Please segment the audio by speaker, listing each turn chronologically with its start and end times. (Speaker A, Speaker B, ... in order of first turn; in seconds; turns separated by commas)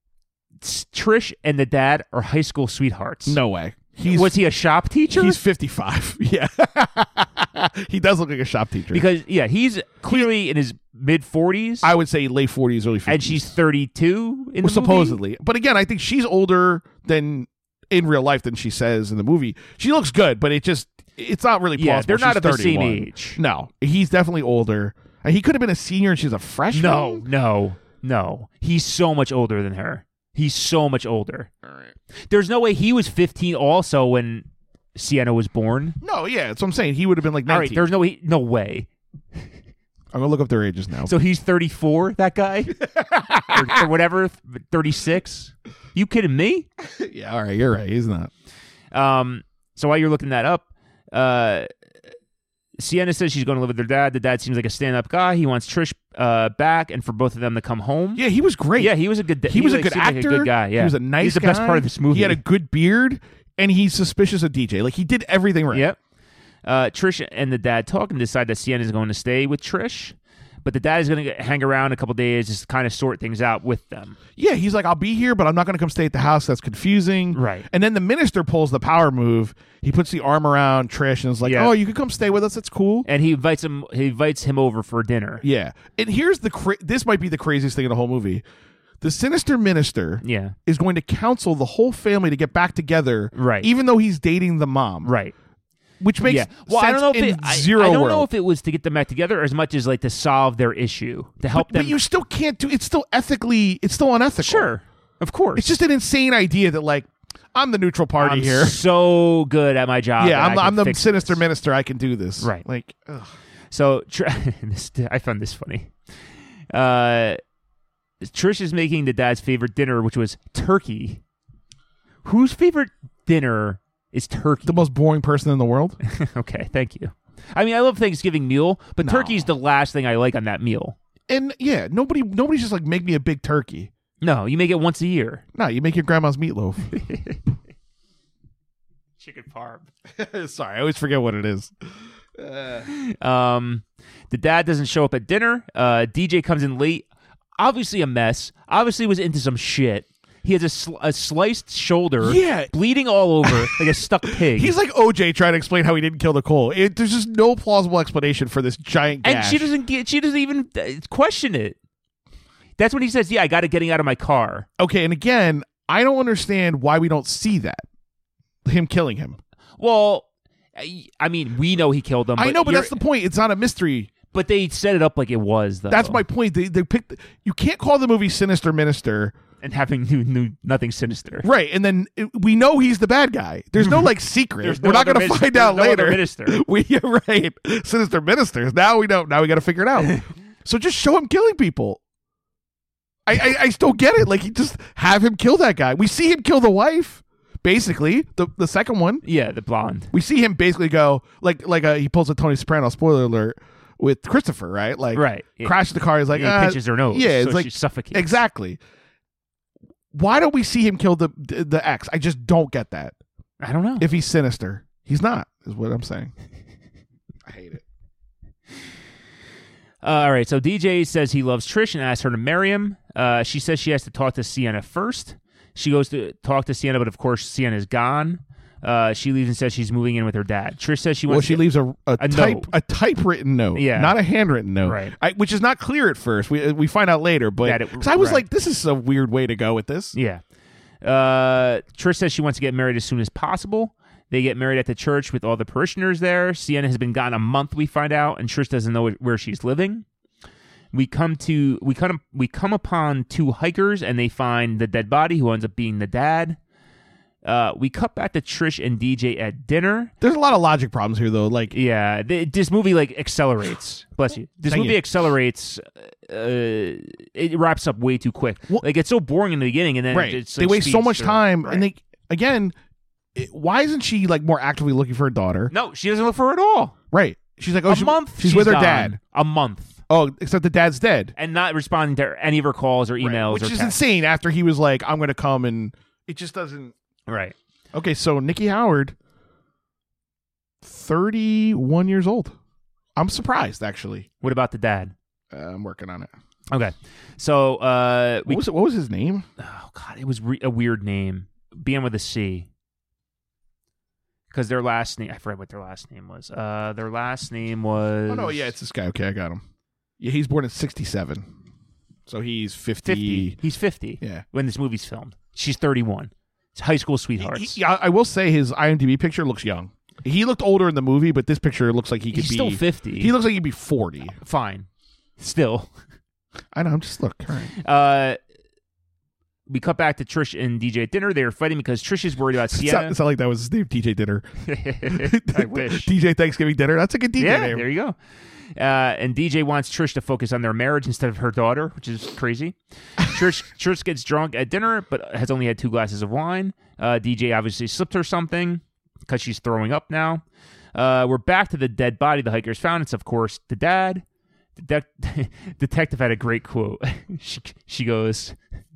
Speaker A: 0.6-3.4, Speaker B: 3.3-4.4, Speaker A: 4.1-5.4, Speaker B: 5.1-9.0, Speaker A: 8.9-11.9, Speaker B: 11.8-13.5, Speaker A: 13.1-15.2, Speaker B: 14.6-27.2, Speaker A: 21.8-23.4, Speaker A: 26.7-31.5, Speaker B: 31.6-31.9, Speaker A: 32.3-36.0, Speaker B: 36.0-37.9, Speaker A: 37.5-38.9, Speaker B: 40.1-41.1, Speaker A: 41.0-42.8, Speaker B: 42.8-43.9, Speaker A: 43.5-46.7, Speaker B: 46.8-48.3, Speaker A: 48.9-51.7, Speaker A: 52.8-58.2, Speaker B: 58.2-65.9, Speaker A: 58.8-62.4, Speaker A: 65.7-66.0, Speaker A: 66.7-74.2, Speaker B: 74.4-83.1, Speaker A: 77.3-77.7, Speaker A: 81.4-81.7, Speaker A: 83.1-85.4, Speaker B: 85.4-88.4, Speaker B: 89.0-95.1, Speaker A: 90.2-90.5, Speaker A: 93.3-93.7, Speaker A: 95.0-95.3, Speaker B: 96.0-98.3, Speaker A: 96.2-102.0, Speaker B: 101.5-104.7, Speaker A: 104.4-105.7, Speaker B: 105.6-108.8, Speaker A: 108.2-111.4, Speaker B: 110.2-113.3, Speaker A: 112.4-112.7, Speaker A: 113.7-115.9, Speaker A: 116.7-117.4, Speaker A: 118.2-121.2, Speaker A: 122.2-124.8, Speaker B: 124.7-126.0, Speaker A: 126.0-131.0, Speaker B: 129.0-129.5, Speaker B: 131.3-133.9, Speaker A: 134.2-135.4, Speaker B: 135.6-137.0, Speaker A: 136.9-137.4, Speaker A: 139.2-139.9, Speaker B: 140.1-141.7, Speaker B: 142.4-142.9, Speaker A: 142.8-147.1, Speaker A: 147.6-154.8, Speaker B: 152.2-152.7, Speaker B: 153.4-159.7, Speaker A: 159.2-161.8, Speaker A: 162.8-164.7, Speaker B: 164.8-167.8, Speaker B: 168.7-169.4, Speaker A: 169.8-173.0, Speaker B: 172.4-174.1, Speaker A: 174.3-176.2, Speaker B: 175.9-179.3, Speaker A: 179.6-181.5, Speaker B: 181.4-192.0, Speaker A: 184.6-186.6, Speaker B: 193.3-199.2, Speaker A: 199.2-200.1, Speaker B: 200.1-208.8, Speaker A: 205.1-205.8, Speaker A: 206.3-208.4, Speaker B: 210.1-213.2, Speaker A: 213.6-214.1, Speaker B: 214.0-216.3, Speaker B: 217.5-217.8, Speaker A: 220.0-231.6, Speaker B: 231.3-240.1, Speaker A: 232.2-232.7, Speaker A: 233.7-234.2, Speaker A: 234.8-235.2, Speaker A: 237.6-238.4, Speaker A: 240.1-240.4, Speaker A: 241.0-250.1, Speaker A: 250.9-256.6, Speaker A: 257.4-260.1, Speaker B: 260.2-261.7, Speaker A: 261.7-271.9, Speaker B: 264.6-265.0, Speaker B: 270.1-272.8, Speaker B: 273.4-275.7, Speaker A: 275.7-276.9, Speaker B: 277.1-279.2, Speaker A: 277.9-280.0, Speaker B: 280.1-281.3, Speaker A: 281.4-284.0, Speaker B: 283.2-286.9, Speaker A: 287.3-287.6, Speaker B: 287.9-289.1, Speaker B: 290.8-292.6, Speaker B: 293.2-294.3, Speaker A: 294.4-295.1, Speaker B: 295.5-296.3, Speaker A: 296.7-298.6, Speaker B: 298.5-299.4, Speaker A: 299.6-302.7, Speaker A: 304.5-308.7, Speaker B: 308.3-309.6, Speaker B: 310.2-311.5, Speaker B: 312.3-313.6, Speaker A: 313.0-317.8, Speaker B: 317.4-324.4, Speaker A: 322.3-323.3, Speaker A: 324.4-324.9, Speaker A: 325.4-325.9, Speaker B: 326.7-327.7, Speaker A: 327.8-328.4, Speaker A: 329.7-333.2, Speaker B: 332.7-334.5, Speaker A: 334.6-336.1, Speaker B: 335.1-337.9, Speaker A: 337.4-338.2, Speaker A: 338.8-350.4, Speaker A: 350.9-354.2, Speaker A: 354.8-358.6